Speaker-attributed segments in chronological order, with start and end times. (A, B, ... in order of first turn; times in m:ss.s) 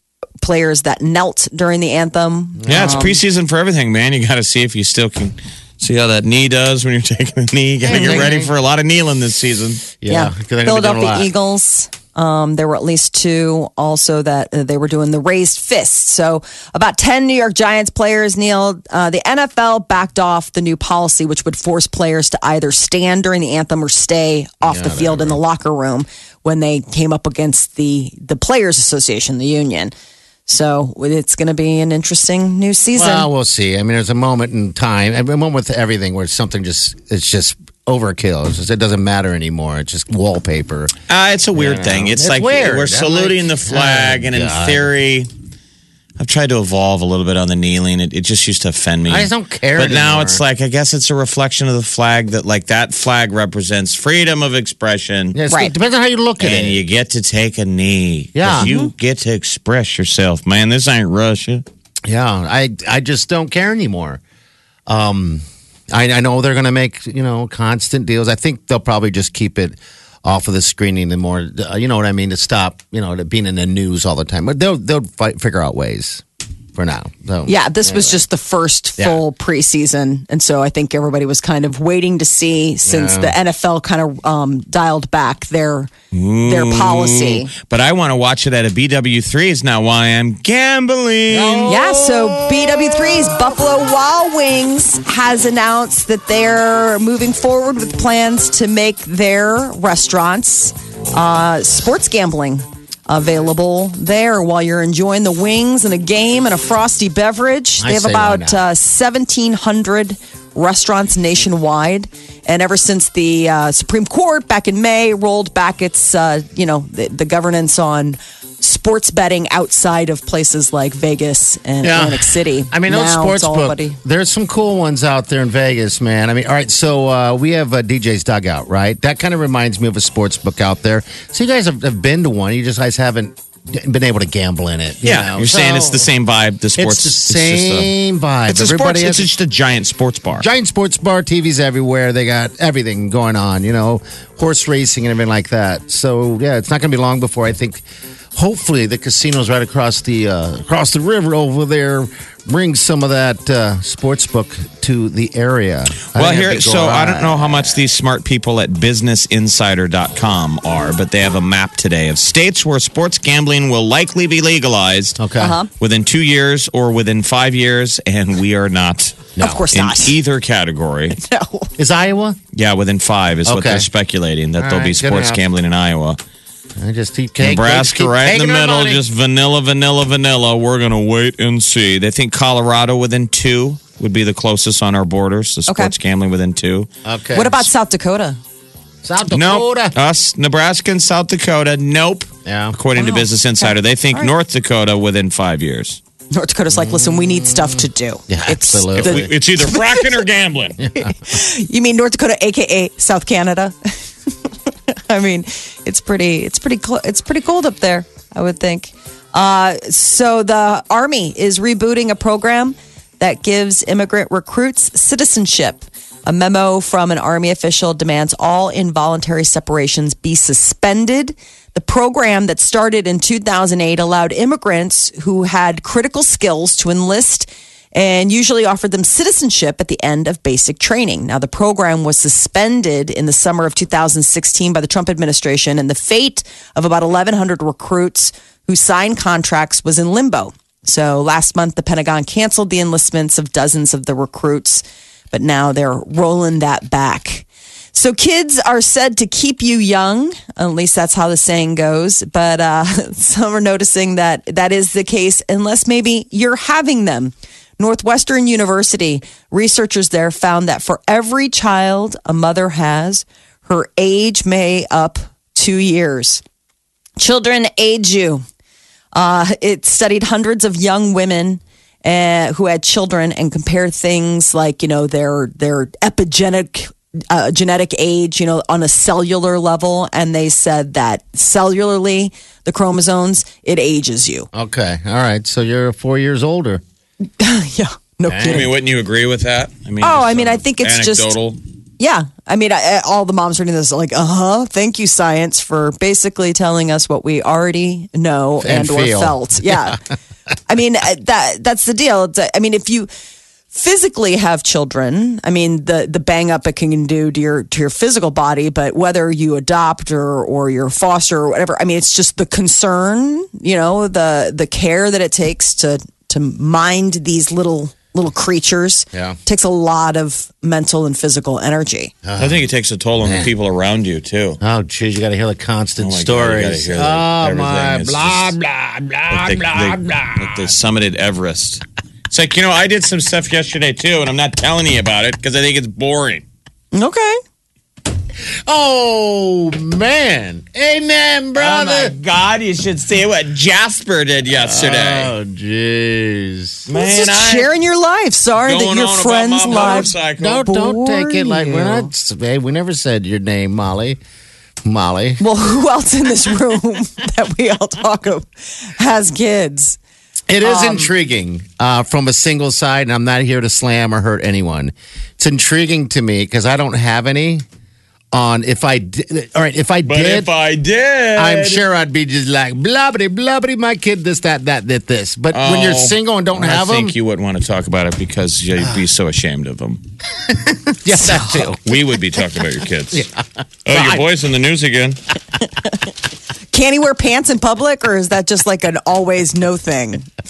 0:00.4-0:03.2 A
0:02.6-0:03.1 B
0:02.7-0:09.9 C
0:07.8-0:08.5 B
0:07.9-0:08.2 A
0:10.0-0:11.3 B
0:10.1-0:29.9 A
0:24.6-0:25.4 B
0:30.5-0:33.3 A
0:32.9-0:40.9 B
0:41.1-0:45.3 C
0:41.5-0:44.9 B
0:46.2-0:55.4 C
0:49.1-0:50.4 B
0:55.3-0:56.8 B
0:56.4-1:01.6 C
0:58.4-0:58.7 B
0:58.6-0:58.9 A
1:02.1-1:04.2 B
1:04.9-1:16.2 B
1:16.8-1:18.2 B
1:17.4-1:25.9 A
1:22.8-1:23.3 B
1:26.1-1:31.7 C
1:26.5-1:27.5 A
1:31.3-1:33.3 B
1:31.7-2:04.0 A
1:47.8-1:48.6 B
2:01.8-2:16.1 B
2:15.0-2:17.9 C
2:16.8-2:19.3 B
2:18.5-2:20.5 C
2:20.4-2:27.8 B
2:28.4-2:37.8 B
2:36.1-2:45.2 C
2:45.2-2:45.5 B
2:45.4-2:45.7 A
2:45.8-2:51.2 C
2:49.4-2:50.1 A
2:51.2-2:51.7 A
2:51.8-2:52.4 B
2:52.5-2:56.2 C
2:53.4-2:53.8 B
2:54.6-2:55.4 B
2:56.8-2:59.0 B
2:57.4-3:06.9 C
3:05.7-3:05.9 A
3:07.0-3:07.7 B
3:07.3-3:08.4 A
3:09.0-3:09.9 B
3:09.3-3:16.0 C
3:12.4-3:12.8 B
3:13.0-3:14.3 A
3:16.3-3:20.1 A
3:16.7-3:19.3 B
3:18.9-3:20.8 C
3:20.8-3:21.1 B
3:21.0-3:23.8 A
3:24.9-4:26.4 A
4:27.2-4:28.4 A
4:29.1-4:44.5 A
4:44.5-4:46.8 B
4:47.4-4:48.7 A
4:48.3-4:48.7 B
4:48.4-4:51.6 C
4:50.0-4:51.3 A
4:52.0-5:00.0 A
4:58.6-5:00.0 B
5:00.7-5:03.1 A
5:03.7-5:22.1 A
5:19.1-5:19.4 B
5:22.2-5:22.6 B
5:22.4-5:24.6 C
5:23.2-5:23.5 B
5:24.6-5:30.7 B
5:26.0-5:28.5 C
5:29.3-5:36.4 C
5:36.9-5:37.4 A
5:38.6-5:42.1 B
5:41.6-5:45.3 C
5:44.5-5:46.9 B
5:46.9-5:47.7 C
5:46.9-5:50.1 A
5:48.6-5:50.6 C
5:50.4-5:54.2 B
5:50.6-5:52.1 A
5:54.8-5:55.4 B
5:55.4-6:00.0 A
6:00.5-6:07.6 B
6:00.6-6:01.1 A
6:08.3-6:10.5 B
6:10.0-6:11.8 C
6:11.4-6:17.1 B
6:15.5-6:20.0 C
6:20.6-6:22.0 B
6:21.2-6:21.5 A
6:21.8-6:23.3 C
6:23.1-6:24.2 B
6:23.8-6:25.2 C
6:26.7-6:30.2 A